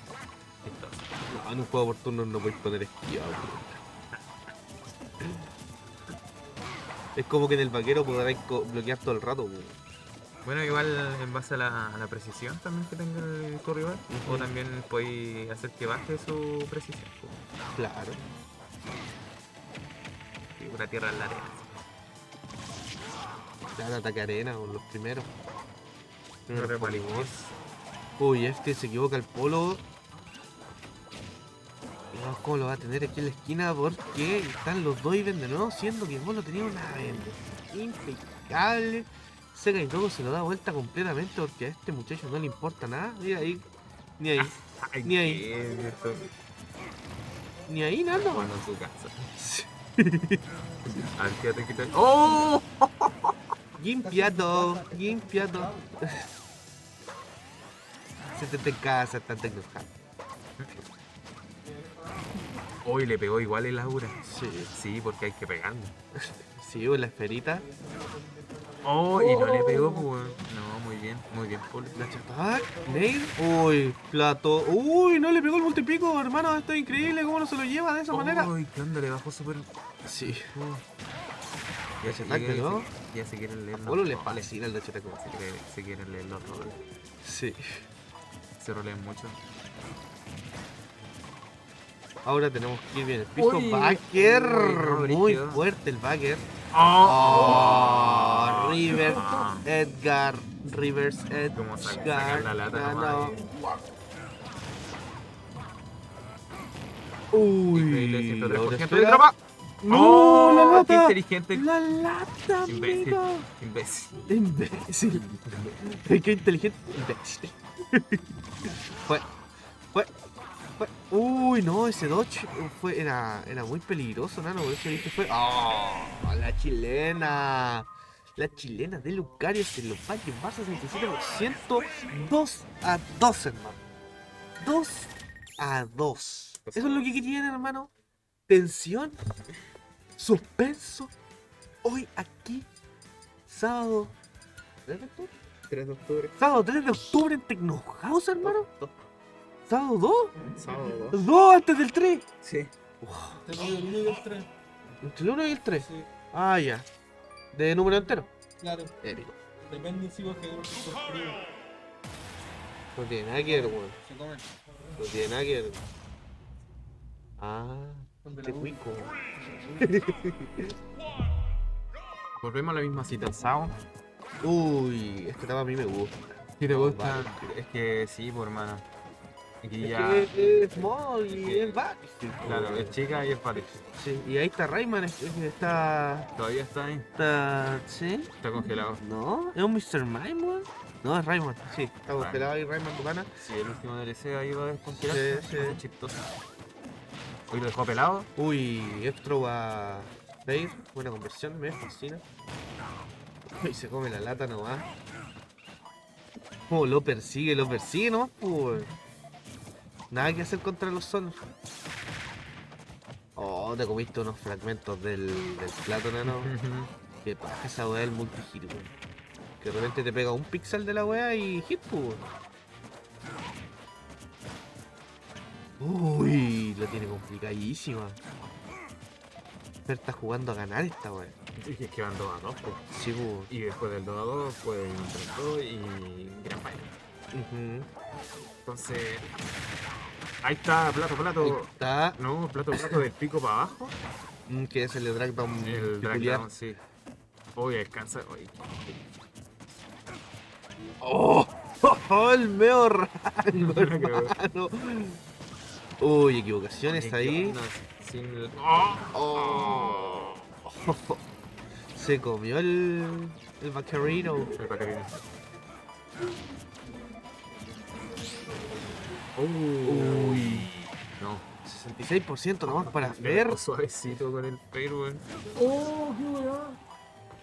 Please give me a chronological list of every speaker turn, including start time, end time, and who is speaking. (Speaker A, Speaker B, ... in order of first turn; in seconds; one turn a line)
Speaker A: 0.6-1.0
Speaker B: 1.3-3.8
Speaker B: 7.2-9.8
Speaker A: 10.4-17.4
Speaker B: 14.1-14.5
Speaker B: 17.7-18.2
Speaker A: 20.6-21.7
Speaker B: 23.7-25.3
Speaker B: 26.5-27.3
Speaker A: 26.5-27.5
Speaker B: 28.2-29.8
Speaker B: 32.1-43.7
Speaker B: 44.2-45.4
Speaker A: 44.4-46.3
Speaker B: 47.7-48.5
Speaker A: 48.1-49.3
Speaker B: 49.4-50.4
Speaker A: 51.1-53.3
Speaker B: 53.8-56.3
Speaker C: 54.2-55.6
Speaker B: 58.3-59.9
Speaker A: 62.8-65.9
Speaker B: 64.2-64.7
Speaker B: 66.2-67.7
Speaker C: 67.8-70.3
Speaker A: 68.8-72.0
Speaker B: 72.0-78.5
Speaker A: 78.1-79.7
Speaker B: 80.0-80.5
Speaker A: 80.2-80.8
Speaker A: 82.0-84.5
Speaker B: 82.0-82.9
Speaker B: 83.8-85.2
Speaker A: 85.1-86.8
Speaker B: 87.2-87.6
Speaker A: 88.6-89.4
Speaker B: 92.2-96.5
Speaker A: 93.3-95.6
Speaker A: 96.7-99.7
Speaker B: 97.0-103.4
Speaker A: 101.5-103.5
Speaker B: 107.3-109.3
Speaker A: 107.7-109.3
Speaker B: 109.8-113.5
Speaker A: 109.9-111.7
Speaker A: 112.7-114.3
Speaker B: 114.3-119.3
Speaker A: 115.1-115.7
Speaker B: 120.8-133.8
Speaker B: 134.6-137.9
Speaker A: 136.6-137.1
Speaker B: 138.5-139.2
Speaker B: 140.2-141.1
Speaker B: 141.8-142.7
Speaker B: 143.5-144.1
Speaker B: 144.8-145.3
Speaker A: 145.7-146.4
Speaker B: 146.4-148.7
Speaker A: 148.4-149.1
Speaker B: 149.7-150.3
Speaker A: 150.5-151.2
Speaker B: 151.1-152.2
Speaker A: 152.4-152.7
Speaker B: 153.0-153.4
Speaker C: 153.4-154.5
Speaker B: 155.0-156.9
Speaker C: 155.8-156.1
Speaker B: 157.5-158.3
Speaker C: 158.6-159.0
Speaker B: 159.0-159.4
Speaker C: 159.7-161.5
Speaker B: 162.9-163.9
Speaker C: 163.5-164.5
Speaker B: 165.0-165.8
Speaker B: 167.4-169.1
Speaker C: 168.2-168.8
Speaker C: 169.3-169.9
Speaker B: 169.8-170.7
Speaker A: 172.4-173.8
Speaker B: 174.4-177.5
Speaker A: 176.6-178.9
Speaker A: 179.6-180.8
Speaker B: 179.8-183.0
Speaker A: 181.4-181.7
Speaker A: 182.4-183.8
Speaker B: 183.9-186.3
Speaker A: 186.3-187.1
Speaker B: 187.2-188.3
Speaker A: 188.4-189.0
Speaker B: 189.0-193.3
Speaker A: 192.2-192.6
Speaker A: 193.4-196.2
Speaker B: 194.9-195.8
Speaker A: 197.5-198.3
Speaker B: 198.4-202.2
Speaker B: 203.6-204.9
Speaker B: 206.7-208.9
Speaker B: 210.1-211.4
Speaker B: 213.3-216.5
Speaker A: 216.2-216.9
Speaker B: 217.2-218.9
Speaker B: 219.6-222.3
Speaker B: 225.8-228.2
Speaker B: 229.8-231.3
Speaker A: 231.6-232.8
Speaker B: 232.9-233.5
Speaker A: 233.5-236.9
Speaker B: 237.3-237.9
Speaker A: 238.6-239.5
Speaker A: 240.4-243.9
Speaker B: 241.4-242.2
Speaker B: 242.7-243.0
Speaker B: 244.5-246.4
Speaker A: 245.6-246.8
Speaker A: 247.6-249.1
Speaker B: 251.0-255.2
Speaker A: 253.5-254.3
Speaker B: 256.0-257.6
Speaker A: 256.9-260.3
Speaker B: 259.1-261.2
Speaker B: 261.9-264.5
Speaker A: 264.5-265.2
Speaker A: 269.4-271.4
Speaker B: 269.9-270.7
Speaker B: 271.6-273.6
Speaker A: 272.6-276.8